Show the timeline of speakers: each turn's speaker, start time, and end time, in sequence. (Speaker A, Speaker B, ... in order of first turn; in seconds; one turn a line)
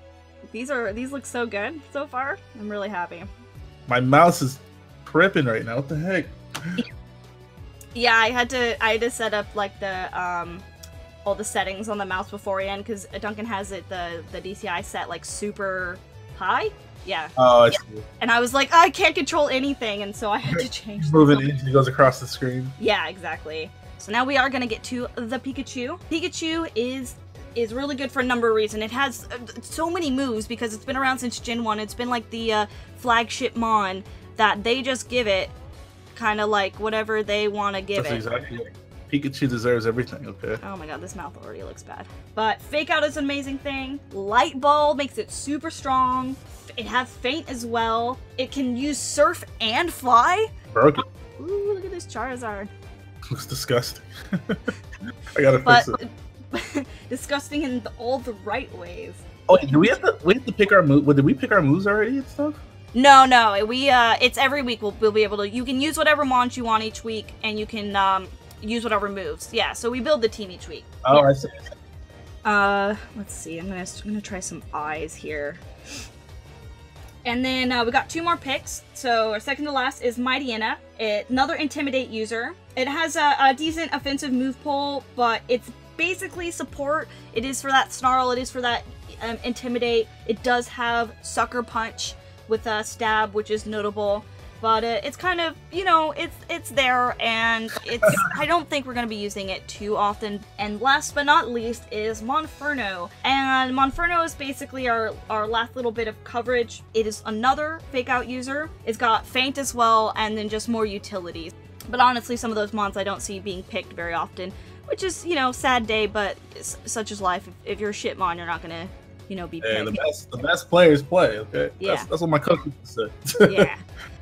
Speaker A: 0.5-3.3
Speaker B: 3.9-6.8
Speaker A: 8.0-10.7
Speaker A: 11.2-17.4
Speaker B: 17.4-18.1
Speaker A: 18.2-21.5
Speaker B: 20.5-22.7
Speaker A: 22.8-35.5
Speaker A: 36.1-38.2
Speaker B: 38.0-40.6
Speaker A: 40.6-50.5
Speaker B: 50.7-51.0
Speaker A: 51.4-52.7
Speaker B: 53.3-54.6
Speaker B: 55.3-56.0
Speaker A: 55.6-59.2
Speaker B: 59.5-62.6
Speaker A: 62.9-71.2
Speaker B: 71.0-71.5
Speaker A: 72.4-75.6
Speaker A: 77.2-120.0
Speaker B: 98.0-98.3
Speaker B: 119.6-123.6
Speaker A: 121.8-122.1
Speaker A: 123.4-123.8